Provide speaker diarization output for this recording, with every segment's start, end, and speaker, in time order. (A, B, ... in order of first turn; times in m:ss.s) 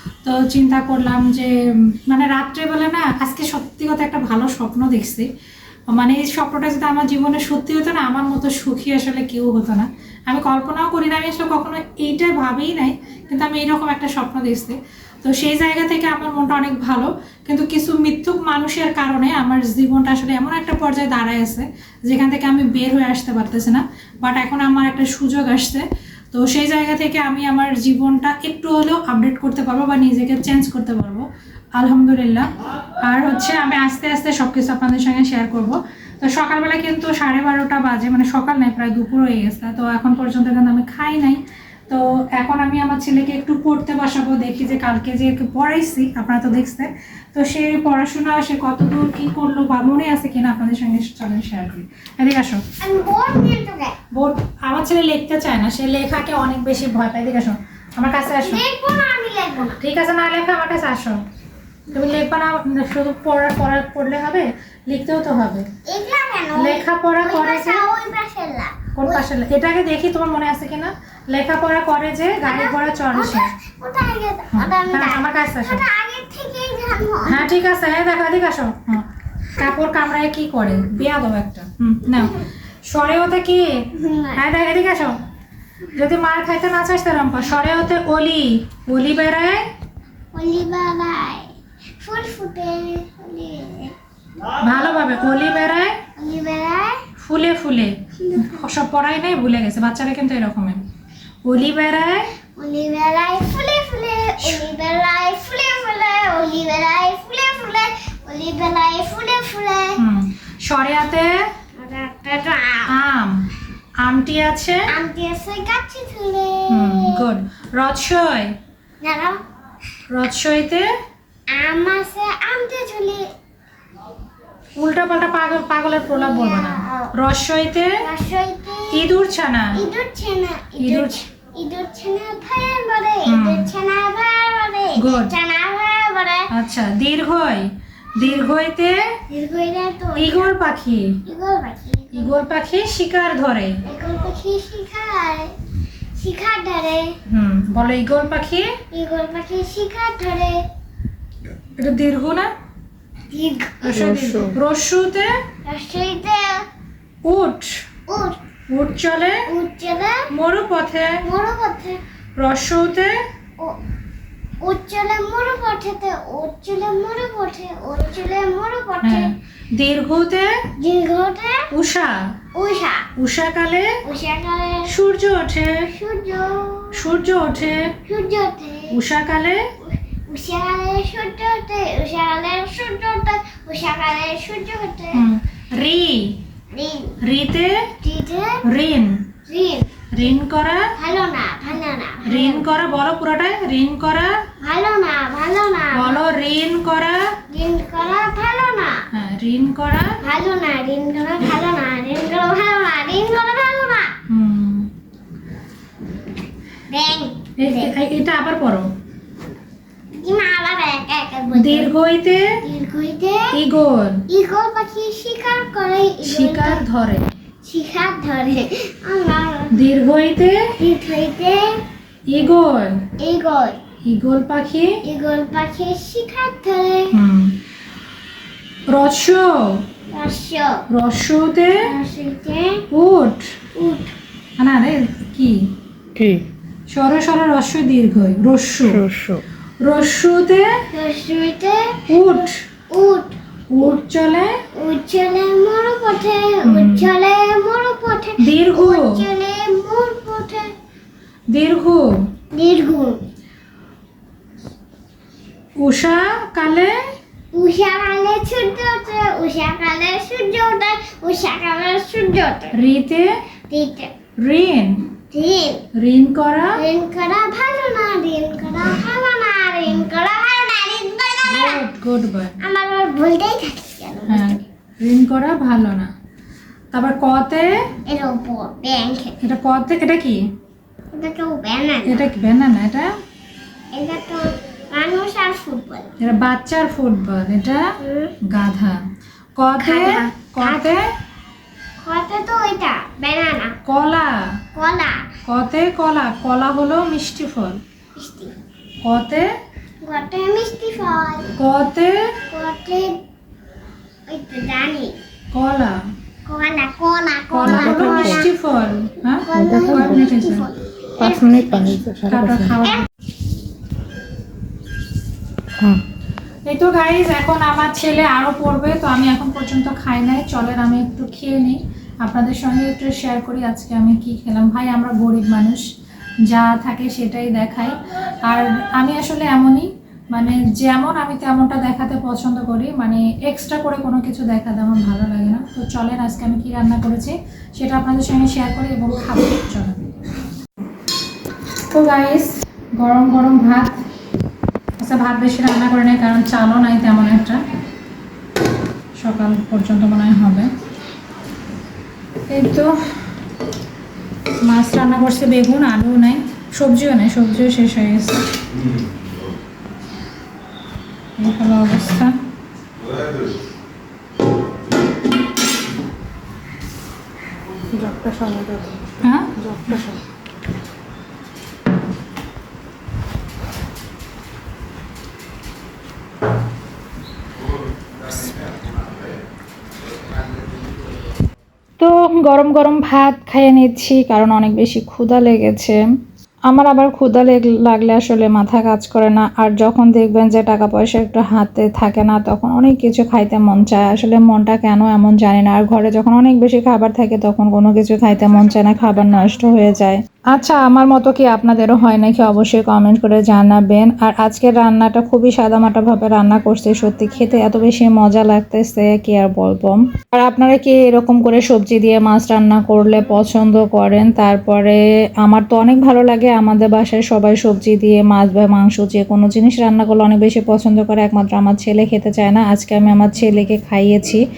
0:00.2-0:01.5 A
0:02.1-0:05.3 A
0:05.9-0:31.2 A
0:31.8-0:32.5 A
0:33.0-0:52.6 A
0:52.8-0:54.0 B
0:54.1-0:58.6 A
0:58.4-0:59.8 B
0:59.8-1:01.2 A
1:01.9-1:05.6 A
1:05.9-1:09.2 B
1:06.5-1:07.9 A
1:09.0-1:13.5 A
1:12.4-1:17.5 B
1:14.5-1:15.8 A
1:17.2-1:25.2 A
1:23.9-1:24.4 B
1:25.9-1:29.7 A
1:30.3-1:33.9 B
1:34.6-1:36.0 A
1:36.2-1:37.0 B
1:37.2-1:40.8 A
1:38.2-1:38.6 B
1:41.4-1:42.3 A
1:42.6-1:50.0 B
1:50.0-1:51.5 A
1:51.7-1:53.0 B
1:52.9-1:53.4 A
1:54.0-1:54.9 A
1:54.9-1:57.2 B
1:56.7-1:58.5 A
1:59.0-1:59.4 B
2:00.1-2:00.8 A
2:01.5-2:03.2 B
2:04.8-2:08.0 A
2:06.1-2:07.1 B
2:08.0-2:09.0 B
2:08.9-2:09.9 A
2:09.7-2:16.5 B
2:10.8-2:11.2 A
2:13.2-2:13.7 A
2:15.0-2:15.3 A
2:16.5-2:17.6 A
2:18.2-2:19.2 A
2:19.3-2:20.5 B
2:20.2-2:21.2 A
2:21.2-2:22.4 B
2:22.1-2:23.8 A
2:23.8-2:25.5 B
2:26.1-2:27.1 B
2:27.3-2:28.7 A
2:28.9-2:30.6 B
2:31.8-2:32.5 A
2:33.3-2:33.9 B
2:33.8-2:35.3 A
2:33.9-2:34.5 C
2:35.6-2:36.6 B
2:37.2-2:37.7 A
2:38.1-2:38.4 B
2:38.7-2:39.5 A
2:39.5-2:40.2 B
2:40.3-2:41.2 A
2:41.2-2:42.0 B
2:42.4-2:43.1 A
2:44.6-2:49.3 B
2:49.0-2:50.6 A
2:50.8-2:51.7 B
2:51.7-2:52.4 A
2:52.5-2:53.1 B
2:53.2-2:53.9 A
2:54.0-2:54.9 B
2:54.9-2:55.9 A
2:55.9-2:57.0 B
2:56.9-2:58.0 A
2:58.0-2:59.0 B
2:58.9-2:59.6 A
2:59.8-3:05.2 B
3:05.1-3:06.4 A
3:06.7-3:07.1 B
3:07.2-3:07.9 A
3:08.0-3:08.6 B
3:08.6-3:09.2 A
3:09.5-3:10.0 B
3:10.1-3:10.9 A
3:11.0-3:12.6 B
3:12.2-3:14.4 A
3:14.6-3:16.2 B
3:15.9-3:17.3 A
3:17.5-3:19.0 B
3:19.1-3:20.2 A
3:20.2-3:24.1 B
3:24.3-3:24.9 A
3:26.9-3:27.9 B
3:27.6-3:28.9 A
3:30.1-3:31.9 B
3:31.5-3:32.5 A
3:32.6-3:33.6 B
3:33.5-3:34.2 A
3:34.3-3:36.8 B
3:36.2-3:37.2 A
3:37.6-3:39.7 B
3:39.7-3:40.6 A
3:40.8-3:41.8 B
3:42.3-3:43.0 A
3:43.2-3:43.8 B
3:44.0-3:45.0 A
3:45.0-3:47.2 B
3:47.1-3:47.6 A
3:48.9-3:49.8 A
3:50.1-3:50.8 B
3:50.9-3:51.9 A
3:51.8-3:52.8 B
3:52.9-3:53.4 A
3:53.7-3:54.1 B
3:54.6-3:55.7 A
3:56.2-3:56.5 C
3:56.9-3:59.1 A
3:58.9-3:59.4 C
3:59.8-4:00.8 A
4:00.9-4:02.1 B
4:02.1-4:02.6 A
4:02.9-4:03.4 B
4:03.7-4:04.5 A
4:04.8-4:10.7 B
4:06.6-4:07.1 A
4:08.4-4:09.2 A
4:11.5-4:12.1 A
4:12.5-4:13.2 B
4:15.8-4:16.9 A
4:17.5-4:22.7 B
4:22.7-4:23.3 A
4:23.7-4:24.1 B
4:24.4-4:25.1 A
4:25.3-4:25.8 B
4:26.0-4:26.8 A
4:26.8-4:31.8 B
4:31.4-4:32.5 A
4:32.6-4:34.6 B
4:34.3-4:36.1 A
4:36.9-4:37.7 A
4:38.1-4:39.4 B
4:39.4-4:40.4 A
4:41.1-4:42.3 B
4:42.0-4:43.1 A
4:43.9-4:46.1 B
4:46.2-4:47.9 A
4:48.0-4:48.3 B
4:48.5-4:49.0 A
4:49.6-4:51.0 A
4:49.8-4:50.9 B
4:52.0-4:53.7 B
4:53.8-4:54.4 A
4:54.7-4:55.3 B
4:55.4-4:57.8 A
4:58.2-4:58.5 B
4:59.0-4:59.5 A
5:00.0-5:01.5 B
5:01.6-5:02.2 A
5:02.5-5:03.2 B
5:04.3-5:05.2 B
5:05.5-5:06.0 A
5:06.4-5:08.5 B
5:07.5-5:10.7 A
5:07.6-5:08.5 C
5:09.4-5:12.0 B
5:09.5-5:10.2 C
5:11.2-5:12.8 C
5:12.3-5:13.1 A
5:16.7-5:25.8 A
5:26.5-5:40.1 A
5:41.9-5:44.0 A
5:45.0-5:47.6 A
5:49.2-5:50.7 A
5:52.5-5:52.9 A
5:54.6-5:58.4 A
6:01.4-6:02.3 A
6:07.9-6:10.2 C
6:09.2-6:10.0 A
6:22.0-6:26.0 A
6:26.7-7:04.4 A